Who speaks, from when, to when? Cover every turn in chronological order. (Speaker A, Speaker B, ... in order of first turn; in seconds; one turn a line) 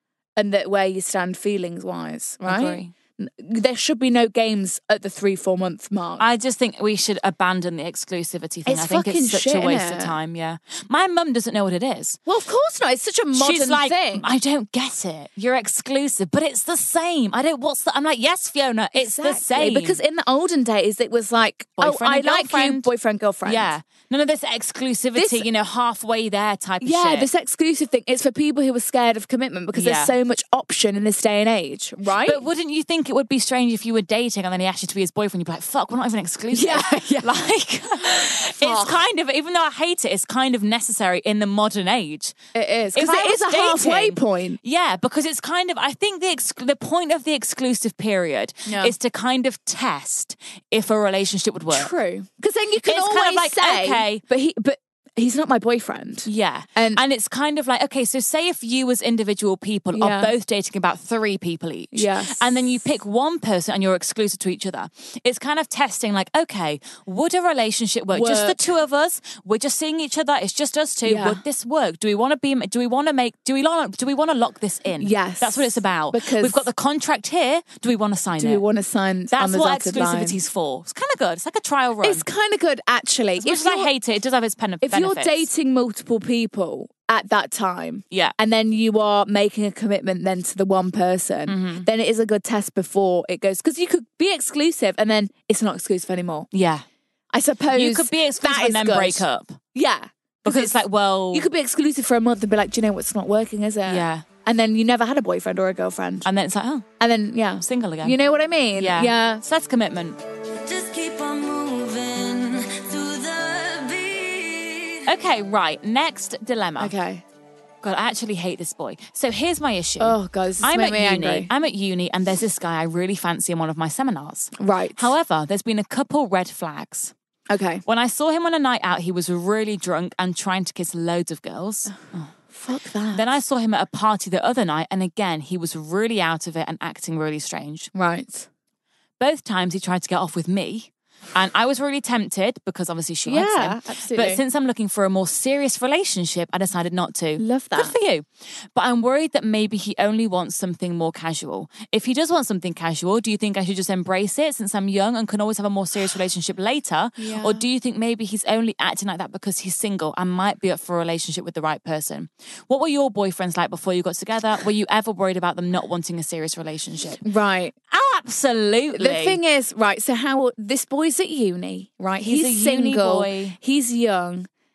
Speaker A: 0.4-6.2
Speaker B: 2.4-2.9
Speaker B: 6.2-12.2
Speaker A: 8.7-10.1
Speaker A: 12.3-14.2
Speaker B: 13.3-20.0
Speaker A: 18.9-23.7
Speaker B: 21.8-22.9
Speaker B: 23.4-27.3
Speaker A: 25.1-25.4
Speaker A: 26.8-32.4
Speaker B: 29.7-30.1
Speaker B: 32.1-42.3
Speaker A: 36.5-39.0
Speaker A: 42.5-44.6
Speaker B: 42.9-51.9
Speaker A: 48.6-48.9
Speaker A: 51.7-57.0
Speaker B: 52.8-54.2
Speaker B: 56.2-78.6
Speaker A: 59.9-60.3
Speaker A: 61.9-62.7
Speaker A: 68.1-68.6
Speaker A: 71.0-71.4
Speaker A: 75.0-76.7
Speaker A: 78.4-80.4
Speaker B: 79.3-82.2
Speaker A: 82.0-83.9
Speaker B: 83.4-85.5
Speaker A: 84.8-96.5
Speaker B: 88.1-88.3
Speaker B: 91.5-91.9
Speaker B: 96.5-96.8
Speaker A: 97.3-106.3
Speaker B: 97.7-99.6
Speaker B: 100.4-101.5
Speaker B: 103.8-104.2
Speaker B: 106.2-106.9
Speaker A: 107.0-109.4
Speaker B: 107.6-108.2
Speaker B: 108.7-110.2
Speaker C: 110.5-115.0
Speaker B: 115.0-116.9
Speaker A: 116.8-117.2
Speaker B: 117.8-127.1
Speaker A: 120.0-121.5
Speaker A: 124.6-125.1
Speaker A: 127.5-127.8
Speaker B: 127.8-132.3
Speaker A: 132.5-133.2
Speaker B: 133.1-137.9
Speaker A: 137.9-138.5
Speaker B: 139.2-167.2
Speaker A: 143.2-144.4
Speaker A: 147.4-147.9
Speaker A: 157.2-157.6
Speaker A: 167.2-167.7
Speaker B: 167.9-169.4
Speaker A: 168.9-174.5
Speaker B: 172.2-173.6